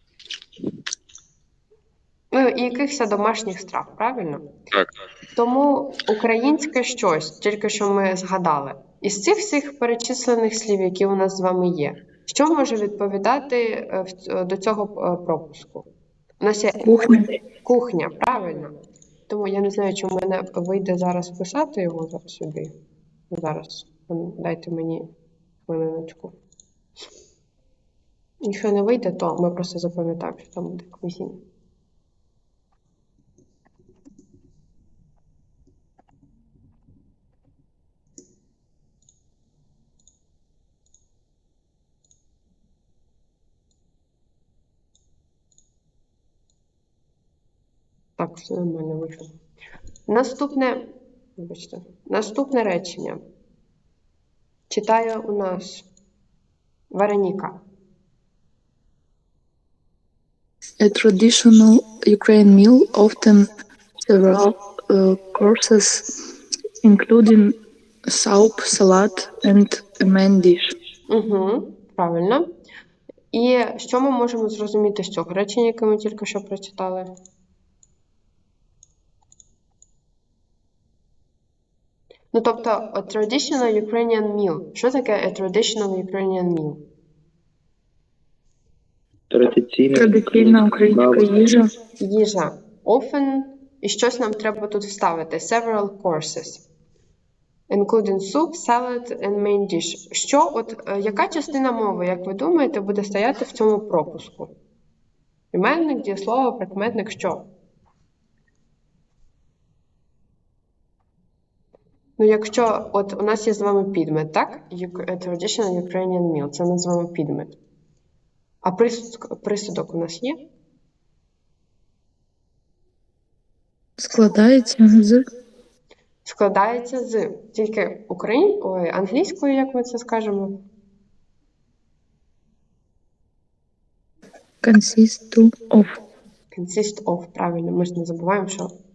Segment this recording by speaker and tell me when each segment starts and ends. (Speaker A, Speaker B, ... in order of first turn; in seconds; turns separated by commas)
Speaker A: 2.3-4.5, Speaker A: 5.3-15.9, Speaker A: 16.4-18.7, Speaker B: 16.8-17.3, Speaker A: 19.3-22.7, Speaker A: 23.3-25.1, Speaker A: 25.7-26.4, Speaker A: 28.4-31.4, Speaker A: 48.2-49.4, Speaker A: 50.1-50.8, Speaker A: 51.4-53.2, Speaker A: 54.7-55.9, Speaker A: 56.9-57.6, Speaker B: 60.8-63.5, Speaker B: 64.1-66.0, Speaker B: 66.8-67.6, Speaker B: 68.1-70.7, Speaker A: 71.1-72.5, Speaker A: 73.3-77.1, Speaker A: 82.3-86.8, Speaker C: 89.3-91.3, Speaker B: 89.9-91.7, Speaker A: 92.0-96.6, Speaker A: 97.7-104.5, Speaker A: 105.5-107.5, Speaker A: 112.2-117.6, Speaker A: 118.6-120.4, Speaker B: 124.0-125.2, Speaker A: 126.2-130.6, Speaker B: 134.6-135.9, Speaker A: 136.5-138.7